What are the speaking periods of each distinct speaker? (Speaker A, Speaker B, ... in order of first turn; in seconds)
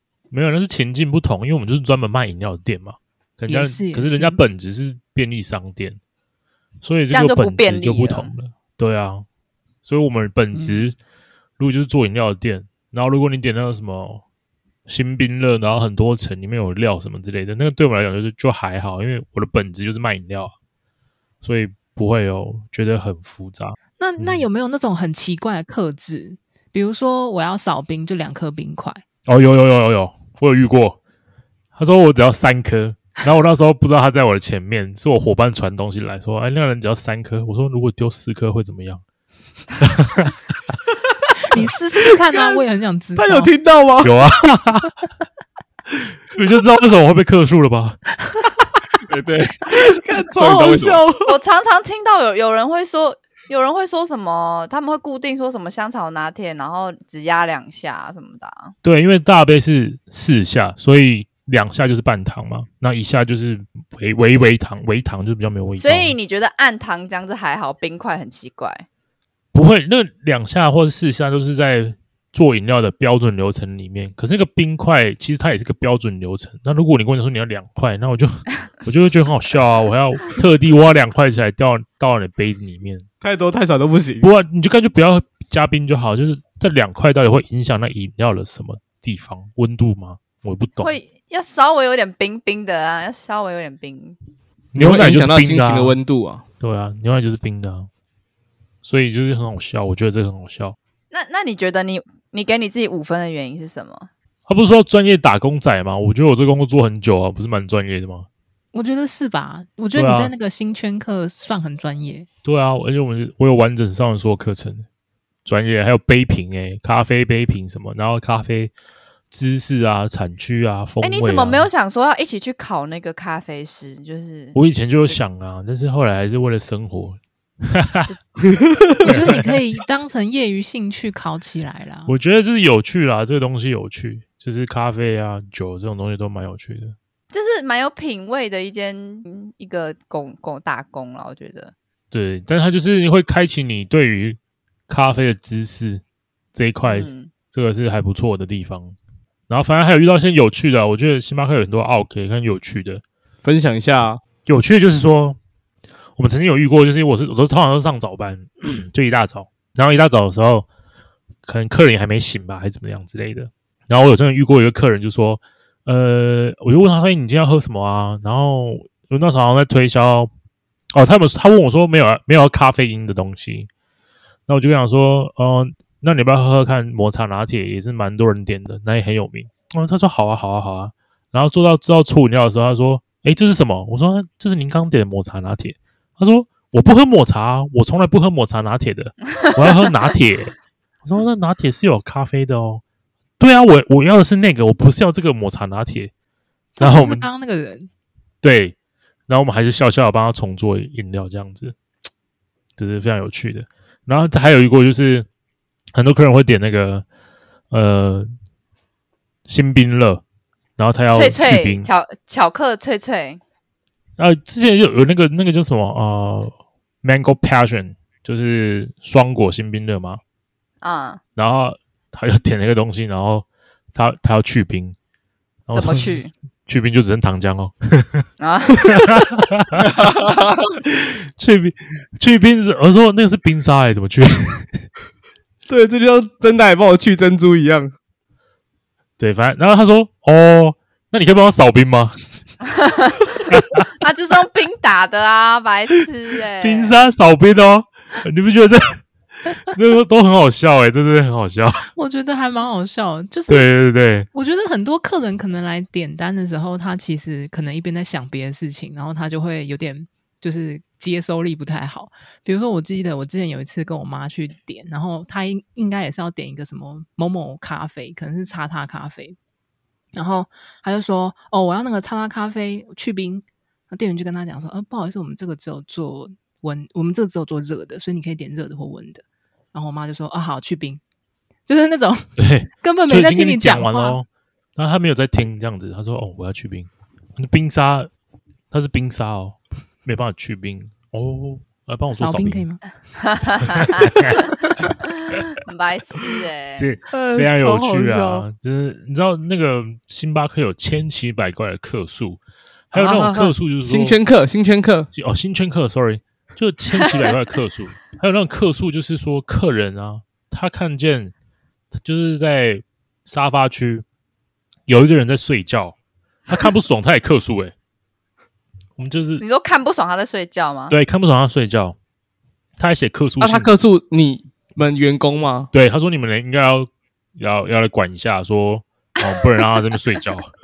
Speaker A: 0.3-6.0, 6.8-9.2, 9.8-11.0, 11.6-14.2, 14.9-20.5, 21.4-24.5, 29.3-31.0, 31.8-39.0, 39.8-40.4, 44.0-45.0, 45.9-48.0, 58.8-66.2, 69.5-83.1, 84.2-91.0, 94.7-96.0, 96.6-97.9, 98.8-100.8, 104.5-108.3, 110.0-110.3, 112.4-114.9, 115.5-118.7, 119.3-121.7, 124.5-128.2, 129.0-129.6, 132.1-136.9, 142.1-146.0, 146.5-149.0, 149.5-153.0, 154.4-155.4, 156.2-160.7, 161.4-170.3, 170.9-173.7, 174.5-192.8, 193.4-196.1, 196.8-197.3, 198.4-198.8, 199.3-201.8, 202.8-205.3, 205.9-207.1, 207.7-208.3, 209.5-210.2, 210.8-211.9, 214.2-220.2, 221.4-225.0, 225.7-228.3, 228.8-230.0, 230.8-234.8, 239.2-242.2, 243.5-243.9, 246.6-251.9, 253.5-254.3, 282.4-288.1, 288.7-292.7, 293.6-295.5, 296.8-304.2, 305.1-311.3, 311.9-314.1, 314.9-316.0, 316.5-317.7, 319.0-319.4, 320.9-322.0, 322.8-323.7, 325.7-330.5
Speaker B: 3.5-4.4, 24.0-29.0, 41.5-43.5, 108.7-112.3, 129.0-132.1, 196.8-197.9, 251.9-253.7, 254.3-269.4, 270.1-281.0, 281.7-284.2, 292.2-292.8
Speaker C: 7.1-8.3, 51.2-58.7, 65.8-68.9, 90.8-94.2, 101.1-104.1, 121.0-124.6, 137.3-141.7, 146.8-147.3, 211.1-213.4, 220.8-221.2, 225.7-226.3, 228.4-229.0, 242.8-243.3, 244.0-247.0, 293.2-294.4, 295.3-296.9, 319.4-321.0
Speaker D: 42.3-42.6, 43.1-44.2, 49.8-51.3, 83.2-84.3, 94.8-96.4, 128.7-128.9, 153.4-154.2, 235.7-237.9, 297.1-298.4, 302.9-305.1, 323.4-325.7
Speaker E: 49.1-51.0, 230.0-230.4